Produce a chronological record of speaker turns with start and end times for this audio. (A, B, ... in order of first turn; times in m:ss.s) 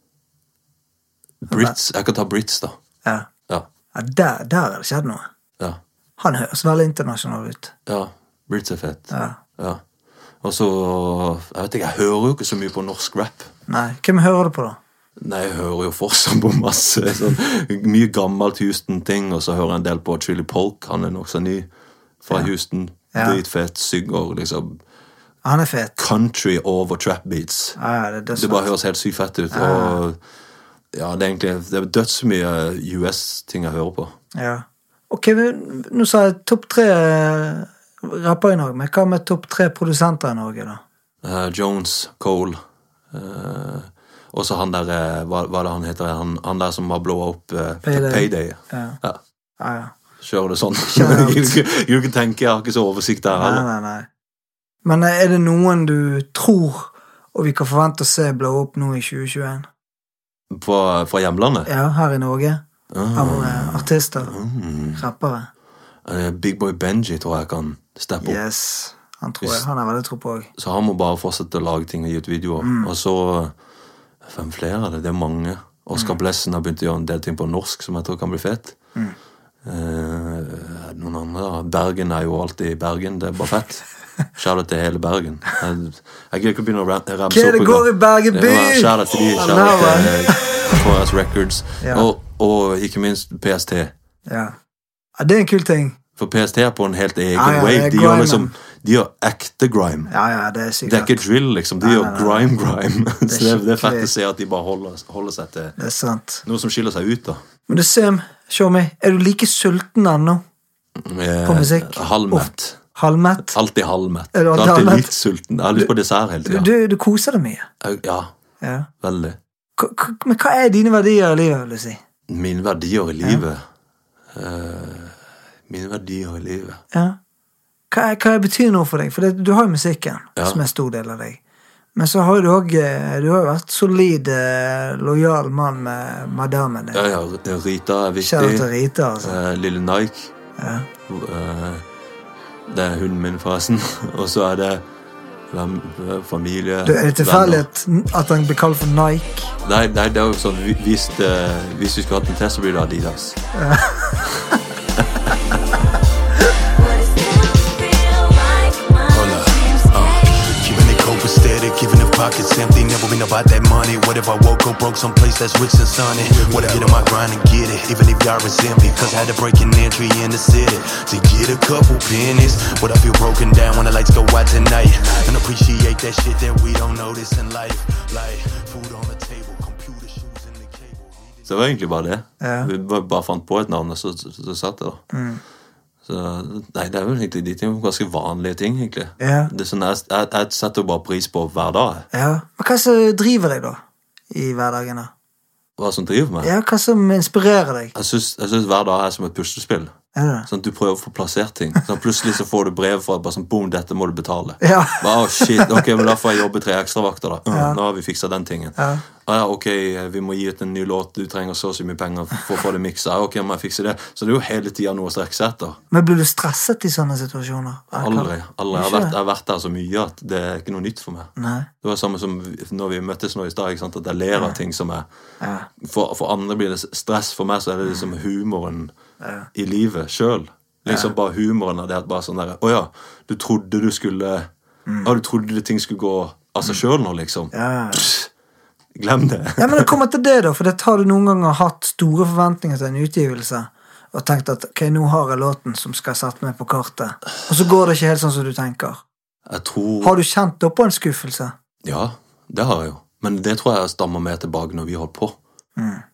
0:01.4-0:02.8 A
0:01.5-0:01.8 B
0:03.9-0:05.3 B
0:06.2-0:07.7 B
0:07.9-0:09.8 A
0:09.1-0:09.4 B
0:10.4-0:13.5 A
0:13.7-0:14.8 B
0:15.2-0:21.7 A
0:22.2-0:24.8 A
0:23.1-0:23.4 B
0:25.4-0:26.0 B
0:26.0-0:27.8 A
0:27.8-0:28.7 B
0:28.4-0:30.2 A
0:29.5-0:30.0 B
0:30.9-0:34.2 A
0:34.4-0:40.8 B
0:41.2-0:42.6 A
0:43.1-0:49.2 A
0:47.8-0:49.0 B
0:49.6-0:49.9 B
0:50.2-0:53.6 A
0:50.9-0:51.6 B
0:53.3-0:54.1 B
0:54.8-0:59.7 B
1:00.5-1:01.7 A
1:01.7-1:02.6 B
1:02.9-1:05.1 A
1:03.1-1:04.3 B
1:05.0-1:05.5 B
1:06.0-1:08.4 A
1:08.2-1:10.5 B
1:10.6-1:13.5 A
1:12.6-1:12.9 B
1:14.2-1:18.8 A
1:19.6-1:23.8 A
1:24.4-1:33.9 A
1:27.3-1:30.5 B
1:31.8-1:32.1 B
1:34.3-1:34.6 B
1:35.2-1:36.0 B
1:36.2-1:40.1 A
1:37.4-1:38.5 B
1:40.1-1:41.2 B
1:40.8-1:45.8 A
1:41.8-1:42.5 B
1:43.3-1:44.1 B
1:45.8-1:46.4 B
1:46.5-1:47.4 A
1:47.7-1:50.4 B
1:51.0-1:52.8 A
1:51.4-1:53.6 B
1:53.4-1:56.7 A
1:54.3-1:55.1 B
1:56.4-1:57.7 B
1:57.8-1:58.3 A
1:58.6-1:58.9 B
1:59.0-1:59.4 A
1:59.8-2:02.0 B
2:02.3-2:03.6 A
2:04.3-2:06.8 A
2:07.9-2:11.4 B
2:12.0-2:17.0 B
2:16.9-2:18.7 A
2:18.2-2:19.4 B
2:19.2-2:20.3 A
2:20.6-2:20.9 B
2:21.1-2:21.8 A
2:22.7-2:24.8 A
2:25.5-2:27.7 A
2:26.8-2:29.5 B
2:29.6-2:33.4 A
2:33.6-2:34.2 B
2:35.0-2:35.3 A
2:36.6-2:40.3 C
2:39.1-3:01.5 D
3:01.5-3:05.0 A
3:02.4-3:02.7 B
3:05.1-3:05.4 B
3:06.0-3:12.1 A
3:09.2-3:09.5 B
3:12.1-3:15.1 B
3:15.8-3:16.5 A
3:16.4-3:17.9 B
3:18.0-3:19.9 A
3:20.2-3:20.5 B
3:20.5-3:35.8 A
3:24.6-3:26.0 B
3:27.5-3:27.8 B
3:28.8-3:29.0 B
3:35.9-3:39.2 B
3:37.9-3:45.1 A
3:41.4-3:41.7 B
3:45.4-3:45.7 B
3:45.8-3:48.9 A
3:49.2-3:49.5 B
3:49.5-3:54.5 A
3:50.9-3:51.1 B
3:55.0-3:58.3 A
3:57.5-3:58.0 B
3:59.0-3:59.9 A
3:59.6-4:09.0 B
4:09.5-4:10.2 A
4:10.0-4:11.5 B
4:11.8-4:15.4 A
4:15.8-4:16.0 B